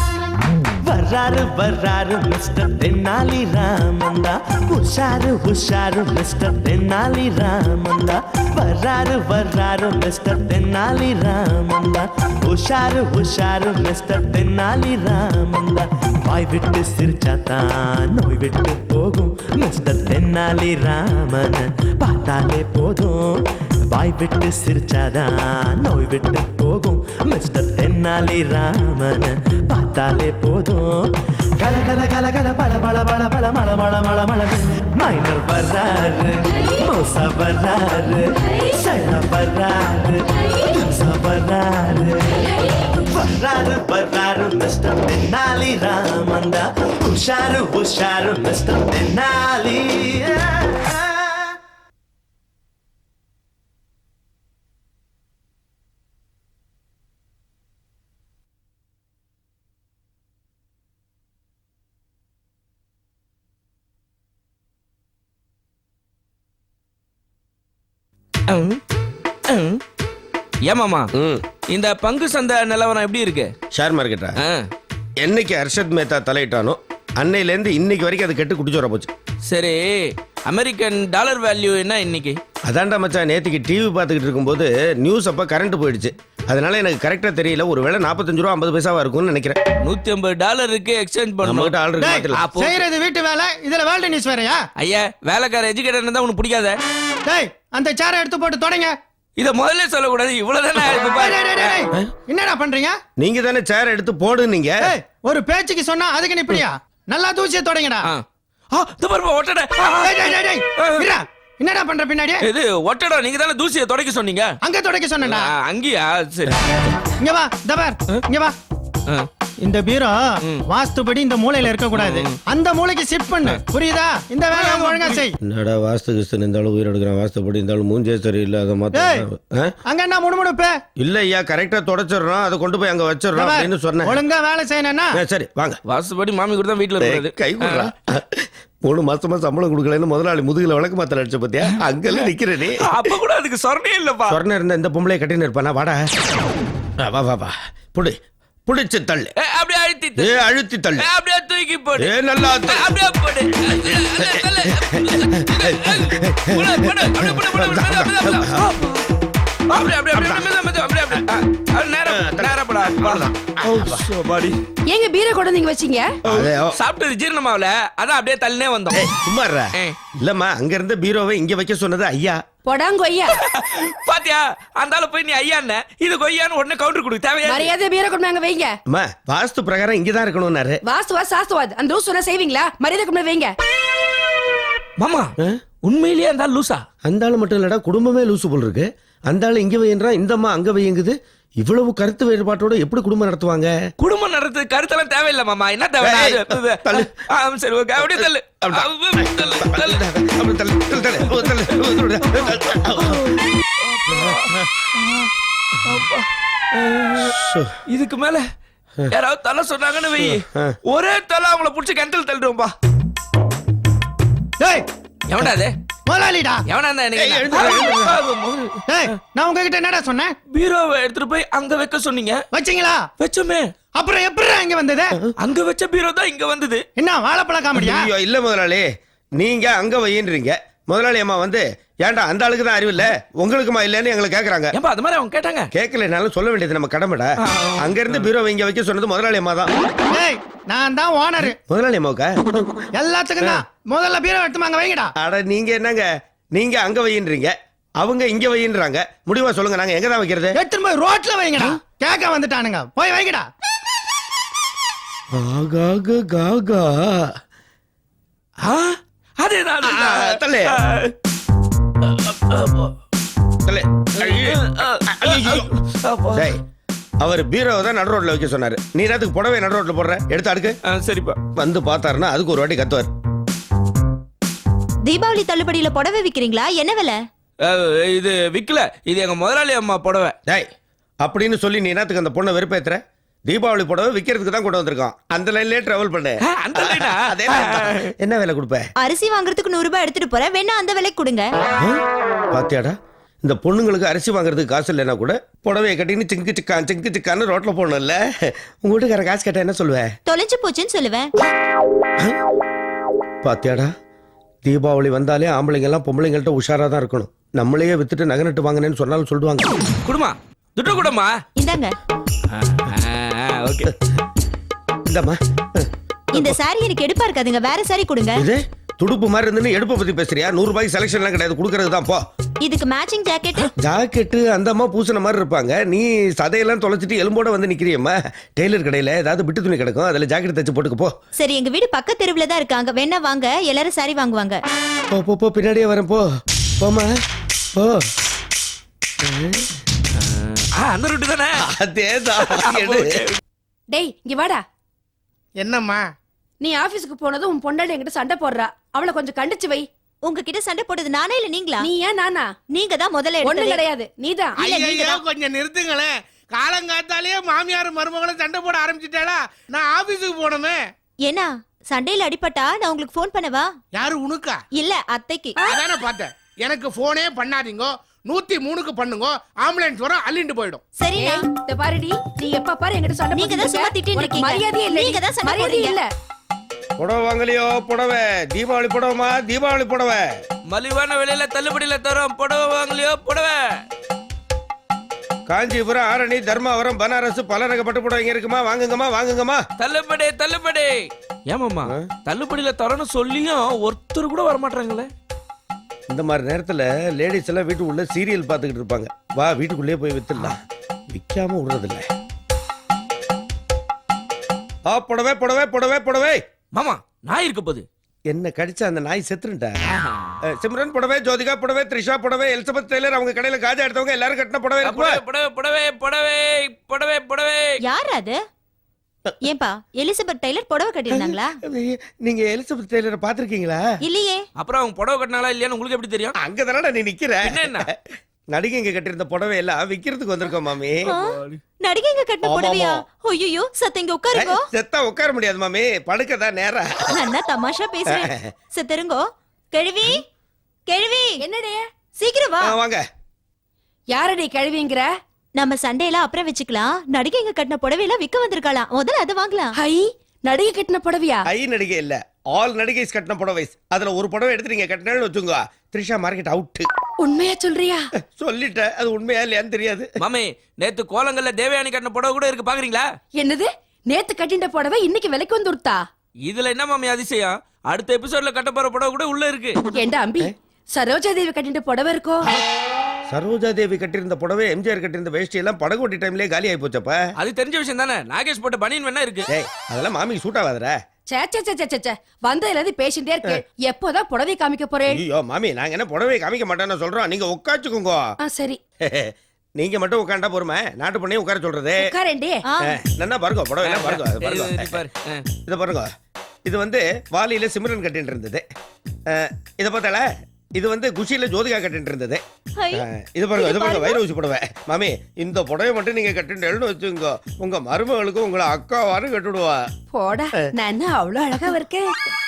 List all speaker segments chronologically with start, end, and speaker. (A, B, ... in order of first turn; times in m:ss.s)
0:00.8-0:23.4 A
0:23.9-0:31.0 A
0:31.6-0:51.6 A
1:08.5-1:08.8 B
1:09.5-1:09.8 B
1:10.7-1:11.1 B
1:11.2-1:11.4 C
1:11.7-1:13.5 B
1:13.7-1:14.4 C
1:14.4-1:14.7 B
1:15.2-1:19.1 C
1:19.5-1:22.4 B
1:22.7-1:29.6 C
1:29.8-1:31.7 B
1:31.4-1:32.4 C
1:32.0-1:34.6 D
1:32.4-1:32.8 B
1:34.8-1:36.8 B
1:37.2-1:38.9 D
1:39.4-1:41.8 B
1:40.9-1:43.0 D
1:43.2-1:44.9 C
1:44.8-1:48.1 D
1:48.0-1:51.1 B
1:50.0-1:52.4 D
1:52.4-1:54.5 B
1:54.6-1:55.5 D
1:55.2-1:56.6 B
1:57.2-1:58.5 D
1:59.6-2:05.4 D
2:01.9-2:02.4 B
2:04.5-2:05.2 B
2:05.4-2:09.7 C
2:08.9-2:09.2 D
2:09.8-2:10.7 D
2:11.0-2:14.2 C
2:13.3-2:15.2 D
2:15.2-2:15.8 C
2:15.9-2:17.9 B
2:17.0-2:23.0 C
2:22.8-2:24.4 B
2:24.3-2:26.1 C
2:27.0-2:29.3 C
2:29.4-2:30.3 B
2:30.2-2:31.0 C
2:31.0-2:39.1 B
2:32.0-2:32.9 C
2:33.6-2:38.6 C
2:39.7-2:44.6 B
2:40.1-2:40.5 C
2:42.1-2:44.0 C
2:44.9-2:46.1 E
2:46.2-2:46.8 C
2:46.2-2:49.0 B
2:48.9-2:52.4 C
2:52.6-2:53.4 E
2:53.4-2:57.7 B
2:57.4-2:58.7 E
2:58.9-3:00.8 C
3:00.8-3:03.5 E
3:05.0-3:05.3 B
3:05.8-3:06.8 B
3:07.0-3:13.9 C
3:14.0-3:20.0 B
3:16.0-3:17.1 C
3:18.0-3:23.2 C
3:21.3-3:25.3 B
3:24.1-3:24.7 C
3:25.8-3:27.3 B
3:27.1-3:27.8 C
3:27.9-3:28.5 B
3:29.1-3:32.7 B
3:30.2-3:30.8 C
3:34.6-3:34.8 D
3:35.3-3:35.7 B
3:36.1-3:36.6 D
3:36.7-3:38.8 B
3:37.2-3:38.2 C
3:38.9-3:40.3 D
3:40.5-3:42.4 B
3:42.5-3:43.0 D
3:43.2-3:43.7 B
3:44.0-3:45.2 D
3:45.4-3:46.8 B
3:47.0-3:48.1 D
3:47.8-3:54.7 C
3:54.7-3:55.7 B
3:55.7-3:59.7 C
3:57.4-3:58.3 B
4:00.1-4:01.6 D
4:01.5-4:02.5 C
4:02.9-4:05.1 D
4:05.2-4:10.6 C
4:10.5-4:13.5 D
4:15.3-4:17.4 C
4:18.6-4:21.1 B
4:19.8-4:20.8 C
4:22.0-4:22.9 B
4:23.6-4:25.7 C
4:24.2-4:26.5 B
4:26.3-4:26.6 C
4:27.2-4:30.8 C
4:30.9-4:31.4 B
4:31.6-4:33.1 C
4:35.0-4:37.2 F
4:37.6-4:40.3 B
4:41.2-4:48.9 C
4:46.5-4:48.1 B
4:49.0-4:51.5 F
4:51.8-5:00.1 C
5:00.3-5:01.3 F
5:03.4-5:03.9 C
5:04.6-5:09.7 C
5:10.0-5:11.3 B
5:11.6-5:11.9 F
5:12.5-5:13.9 B
5:15.1-5:16.6 C
5:16.3-5:18.4 F
5:18.4-5:22.2 C
5:22.6-5:23.7 F
5:23.8-5:31.1 C
5:31.4-5:34.6 F
5:35.1-5:36.2 C
5:36.8-5:37.1 C
5:37.7-5:38.1 C
5:39.2-5:39.7 C
5:40.2-5:41.6 B
5:41.6-5:43.2 C
5:42.4-5:43.4 B
5:43.9-5:44.6 E
5:45.6-5:46.1 G
5:46.6-5:49.8 E
5:50.2-5:51.8 F
5:51.8-5:52.5 E
5:52.7-5:53.8 F
5:53.4-5:55.1 E
5:54.6-6:00.8 G
6:01.2-6:03.7 F
6:03.9-6:04.6 G
6:04.7-6:05.6 F
6:05.7-6:10.8 G
6:11.0-6:11.4 F
6:11.2-6:16.0 E
6:13.3-6:15.9 F
6:17.0-6:20.4 C
6:20.7-6:23.6 B
6:25.5-6:29.6 C
6:29.8-6:35.1 B
6:36.1-6:40.6 C
6:41.1-6:42.1 C
6:44.9-6:46.4 C
6:46.7-6:47.8 B
6:48.3-6:49.8 C
6:49.9-6:50.3 B
6:50.5-6:55.2 C
6:54.8-6:57.8 B
6:57.8-6:58.4 F
6:59.4-7:01.6 F
7:01.1-7:03.8 C
7:04.0-7:04.4 F
7:04.6-7:06.3 B
7:06.4-7:08.0 C
7:07.4-7:07.9 B
7:08.5-7:11.1 C
7:11.0-7:14.7 F
7:11.1-7:11.6 B
7:12.4-7:13.0 C
7:14.3-7:17.1 C
7:17.1-7:19.2 F
7:18.1-7:18.5 C
7:19.7-7:20.2 F
7:20.9-7:21.4 F
7:21.4-7:21.8 E
7:22.2-7:22.8 F
7:22.6-7:23.0 C
7:24.1-7:25.1 E
7:25.6-7:29.7 F
7:29.8-7:31.4 E
7:31.5-7:36.9 C
7:37.2-7:38.1 E
7:38.3-7:40.1 C
7:40.2-7:43.0 B
7:43.4-7:46.0 E
7:46.4-7:49.8 B
7:49.9-7:52.4 E
7:53.3-7:57.2 C
7:57.4-7:59.5 B
7:59.5-8:01.0 C
8:01.3-8:05.2 E
8:05.1-8:08.3 C
8:08.4-8:08.8 E
8:09.0-8:12.1 C
8:12.0-8:12.6 E
8:12.6-8:13.0 F
8:12.8-8:15.0 C
8:13.8-8:15.4 B
8:15.6-8:16.1 C
8:16.6-8:18.6 C
8:19.3-8:22.4 C
8:22.8-8:23.0 F
8:22.9-8:29.9 C
8:23.6-8:24.1 F
8:30.1-8:32.1 E